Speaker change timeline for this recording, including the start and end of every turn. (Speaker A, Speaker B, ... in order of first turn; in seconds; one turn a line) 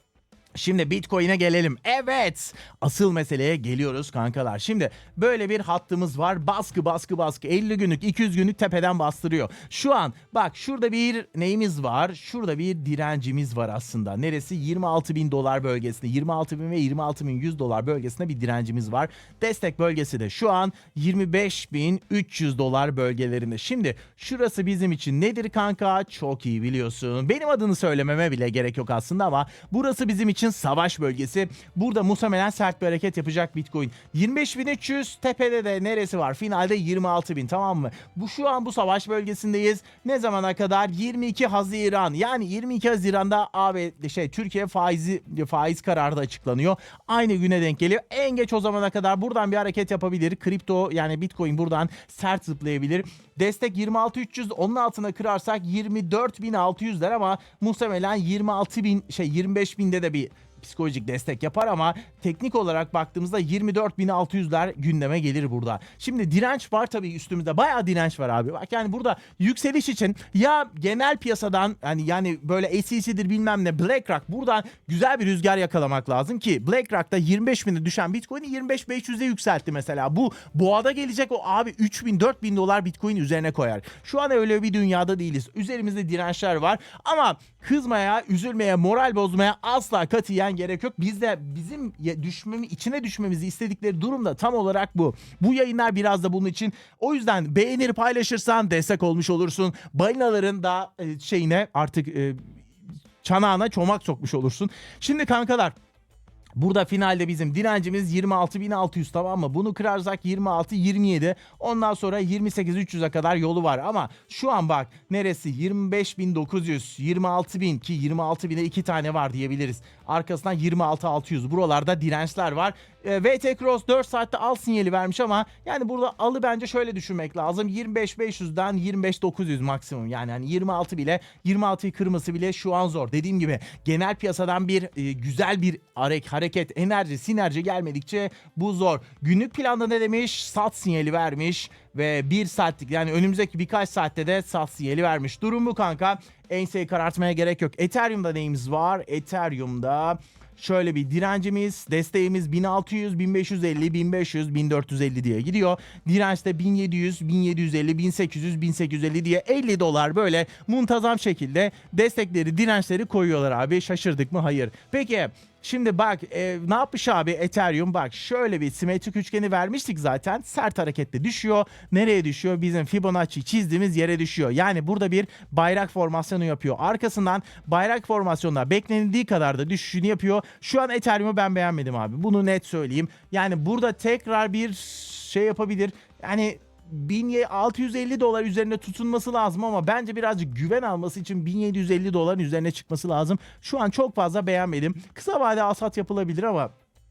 Speaker A: 0.5-102.4
Speaker A: 103.2-105.7
Speaker A: 106.6-196.7